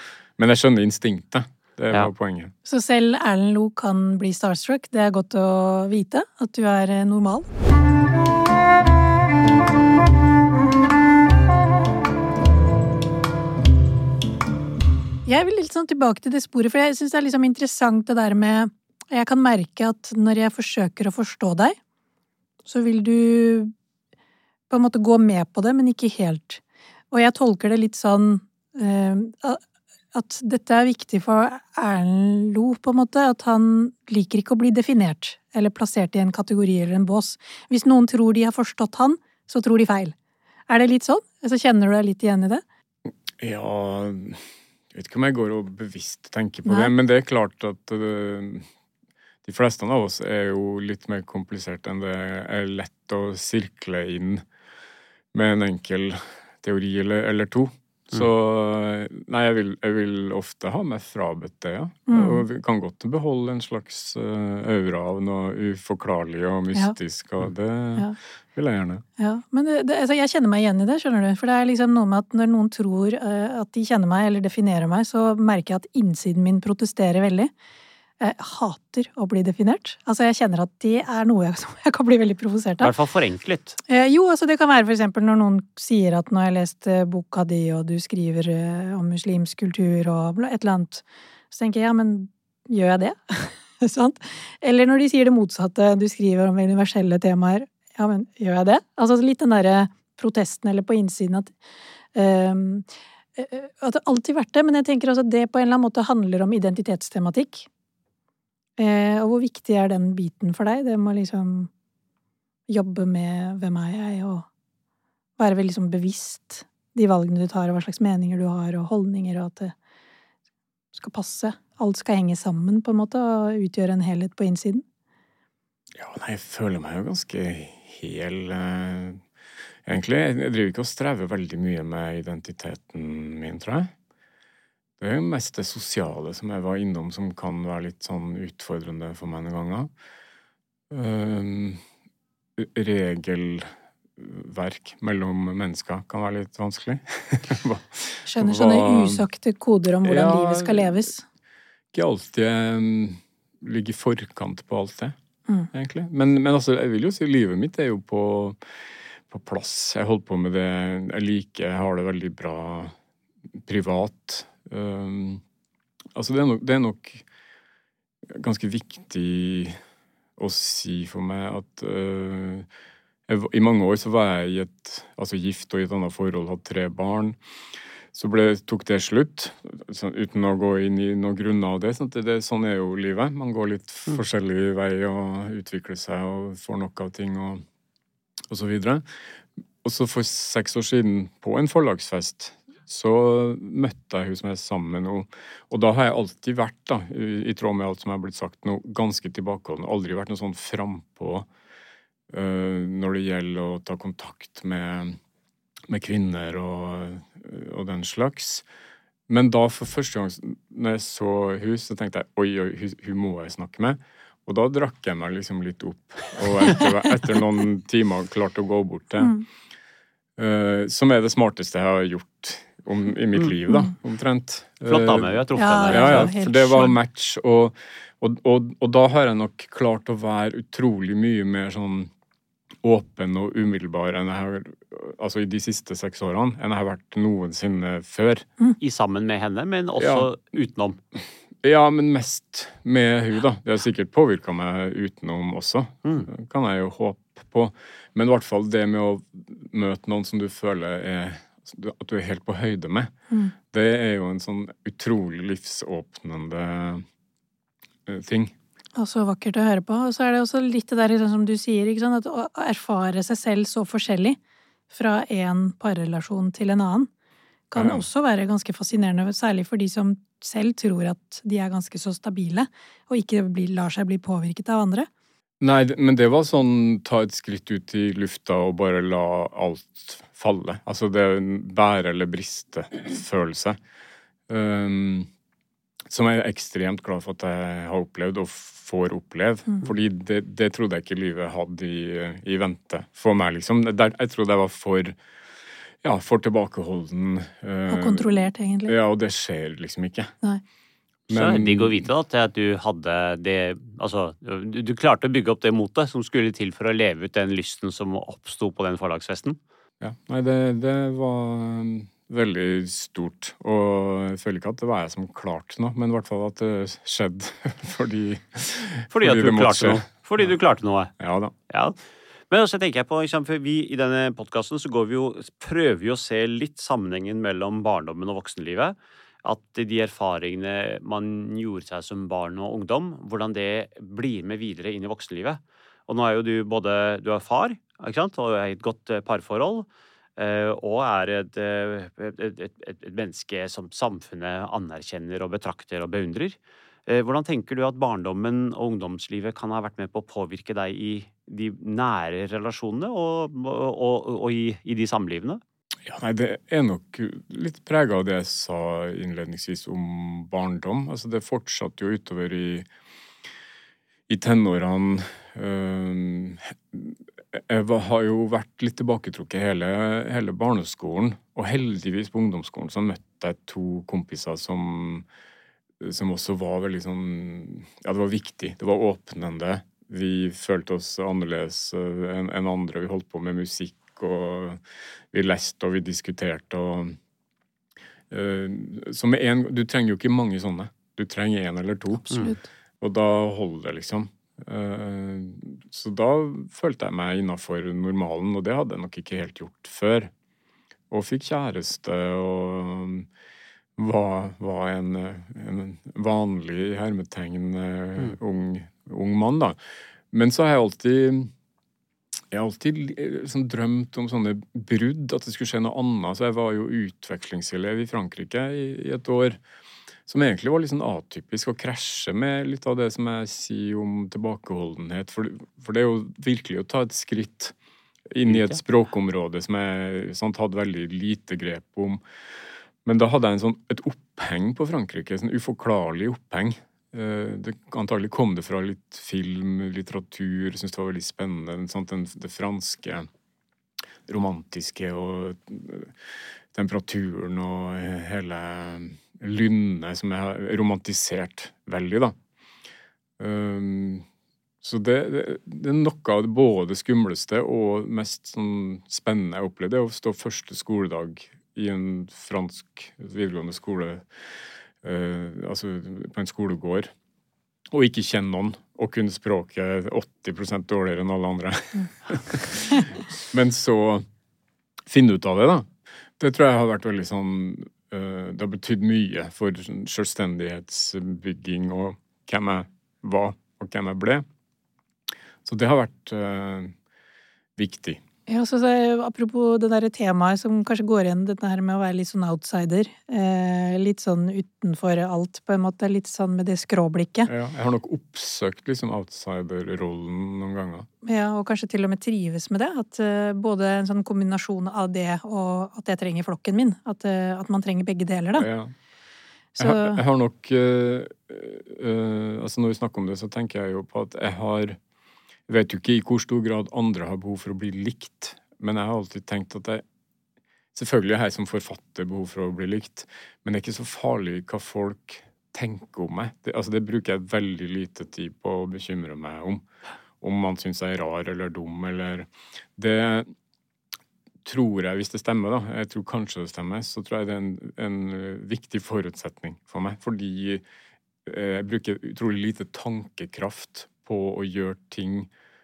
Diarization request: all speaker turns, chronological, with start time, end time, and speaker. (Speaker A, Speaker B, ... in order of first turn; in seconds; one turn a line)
Speaker A: 0.4-2.5
Speaker B: 2.6-7.5
Speaker B: 15.2-21.8
Speaker B: 22.6-23.7
Speaker B: 24.7-29.6
Speaker B: 30.1-40.2
Speaker B: 40.7-42.6
Speaker A: 43.1-44.4
Speaker A: 44.9-48.7
Speaker B: 46.7-46.9
Speaker A: 49.5-54.5
Speaker A: 55.3-69.0
Speaker B: 62.1-62.5
Speaker B: 69.2-77.5
Speaker B: 78.2-82.9
Speaker C: 82.8-83.8
Speaker B: 83.9-101.5
Speaker B: 102.1-107.7
Speaker B: 108.8-111.7
Speaker B: 112.7-114.5
Speaker B: 115.4-119.8
Speaker B: 120.9-124.8
Speaker A: 126.0-129.2
Speaker A: 129.9-133.9
Speaker A: 135.0-139.9
Speaker A: 140.9-141.8
Speaker A: 142.6-149.3
Speaker B: 148.3-151.2
Speaker A: 150.0-151.1
Speaker A: 151.9-155.2
Speaker A: 155.7-162.9
Speaker A: 163.7-165.4
Speaker A: 166.2-167.2
Speaker A: 168.3-169.8
Speaker A: 170.4-172.7
Speaker A: 173.3-177.4
Speaker A: 178.1-187.6
Speaker A: 188.5-189.1
Speaker A: 189.8-201.5
Speaker A: 202.3-205.2
Speaker A: 205.9-208.7
Speaker A: 209.3-219.4
Speaker A: 220.4-232.1
Speaker B: 223.7-223.9
Speaker C: 224.8-226.3
Speaker B: 225.6-226.9
Speaker A: 232.8-238.5
Speaker C: 238.8-241.0
Speaker A: 240.0-240.3
Speaker A: 241.6-253.1
Speaker A: 253.7-257.1
Speaker A: 258.1-258.5
Speaker B: 258.9-264.4
Speaker B: 264.9-267.1
Speaker B: 267.7-275.1
Speaker A: 267.8-268.0
Speaker A: 275.6-283.8
Speaker A: 284.5-285.3
Speaker A: 286.1-295.2
Speaker A: 296.0-300.3
Speaker B: 297.9-299.0
Speaker C: 301.3-309.6
Speaker A: 301.3-302.1
Speaker A: 310.0-320.5
Speaker C: 319.1-321.1
Speaker A: 321.2-321.5
Speaker C: 321.7-322.0
Speaker C: 322.5-339.9
Speaker C: 340.4-355.6
Speaker A: 356.1-362.9
Speaker A: 364.3-375.3
Speaker A: 376.0-384.8
Speaker A: 385.3-387.2
Speaker A: 388.3-400.3
Speaker B: 392.3-392.6
Speaker A: 401.1-403.3
Speaker A: 404.0-409.8
Speaker A: 410.3-411.5
Speaker A: 412.5-419.6
Speaker A: 420.3-427.8
Speaker A: 428.3-432.2
Speaker C: 428.5-428.8
Speaker A: 433.1-443.3
Speaker A: 444.3-446.1
Speaker A: 446.7-452.4
Speaker A: 453.4-454.3
Speaker A: 454.8-464.5
Speaker A: 465.0-467.1
Speaker A: 467.9-474.3
Speaker A: 475.1-484.4
Speaker A: 485.6-486.9
Speaker A: 487.8-488.2
Speaker B: 488.5-497.5
Speaker A: 497.5-501.1
Speaker B: 501.2-508.7
Speaker A: 508.6-508.9
Speaker B: 509.8-510.2
Speaker A: 509.8-515.0
Speaker A: 515.7-520.0
Speaker A: 520.9-529.9
Speaker A: 530.4-533.5
Speaker A: 534.6-540.8
Speaker A: 541.5-545.5